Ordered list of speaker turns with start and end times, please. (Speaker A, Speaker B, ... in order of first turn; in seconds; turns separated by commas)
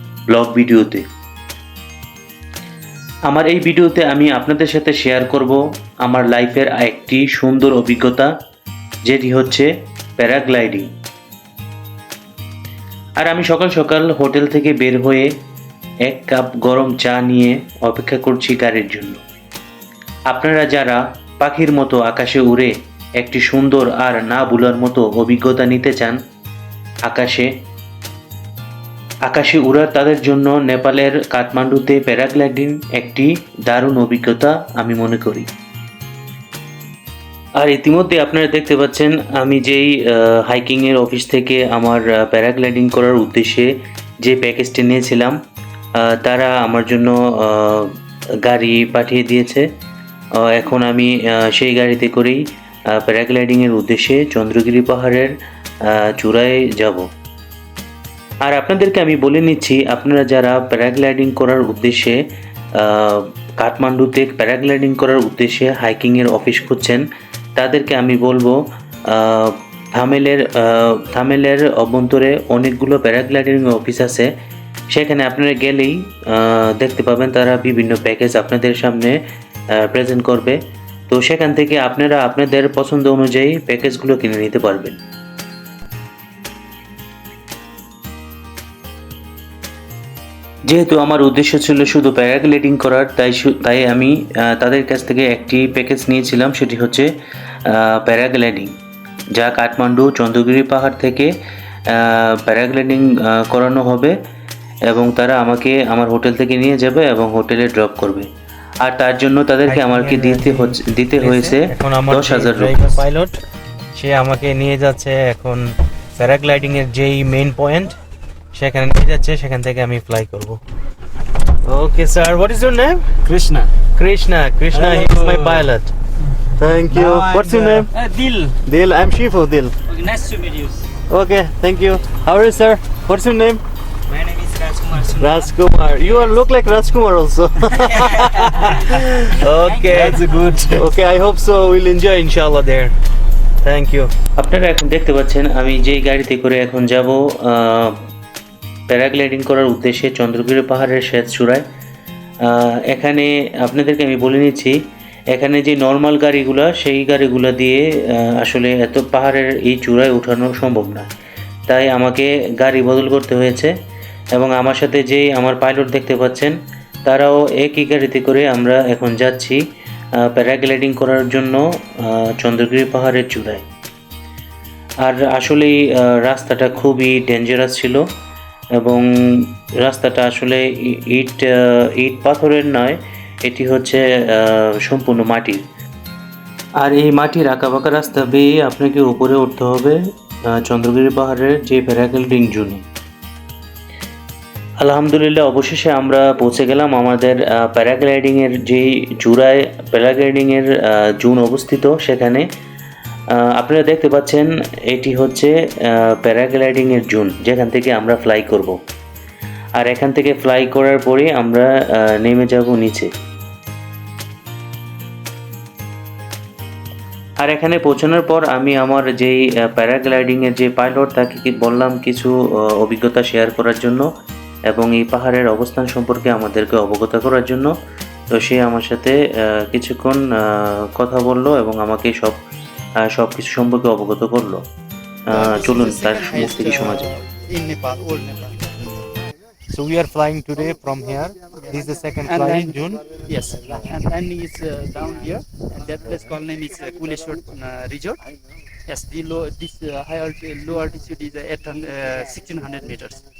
Speaker A: 0.3-1.0, Speaker A: 3.3-8.3, Speaker A: 9.1-10.9, Speaker A: 13.2-15.3, Speaker A: 16.1-19.2, Speaker A: 20.3-26.2, Speaker A: 27.1-27.5, Speaker A: 29.3-35.5, Speaker A: 37.6-45.4, Speaker A: 46.0-49.7, Speaker A: 50.3-52.4, Speaker A: 52.9-55.3, Speaker A: 55.9-57.1, Speaker A: 58.4-62.2, Speaker A: 62.8-74.3, Speaker A: 74.9-79.2, Speaker A: 79.8-85.0, Speaker A: 90.7-97.1, Speaker A: 97.7-98.7, Speaker A: 99.3-101.3, Speaker A: 101.9-104.1, Speaker A: 104.8-108.3, Speaker A: 108.8-112.9, Speaker B: 109.7-113.4, Speaker B: 114.0-115.5, Speaker A: 114.9-115.5, Speaker A: 116.2-117.9, Speaker A: 118.5-120.6, Speaker B: 121.7-123.2, Speaker C: 123.3-123.5, Speaker B: 124.0-125.8, Speaker C: 124.8-125.5, Speaker B: 126.6-127.9, Speaker C: 126.7-131.7, Speaker B: 128.7-129.7, Speaker B: 131.1-133.6, Speaker C: 134.1-135.5, Speaker B: 135.1-142.9, Speaker C: 138.0-138.7, Speaker C: 139.6-141.4, Speaker B: 143.6-144.1, Speaker A: 144.4-148.0, Speaker A: 148.9-151.6, Speaker A: 152.4-154.8, Speaker A: 155.3-161.1, Speaker A: 161.7-163.7, Speaker A: 164.3-169.6, Speaker A: 170.3-173.6, Speaker A: 175.0-178.0, Speaker A: 178.8-185.6, Speaker A: 186.8-190.0, Speaker A: 190.5-192.8, Speaker A: 194.8-202.5, Speaker A: 203.3-208.8, Speaker A: 209.8-213.1, Speaker A: 217.4-224.1, Speaker A: 224.7-227.7, Speaker A: 228.3-232.4, Speaker A: 233.1-234.6, Speaker A: 235.3-237.1, Speaker D: 235.3-238.6, Speaker B: 239.7-243.1, Speaker D: 242.2-242.7, Speaker D: 243.2-248.2, Speaker D: 248.8-253.2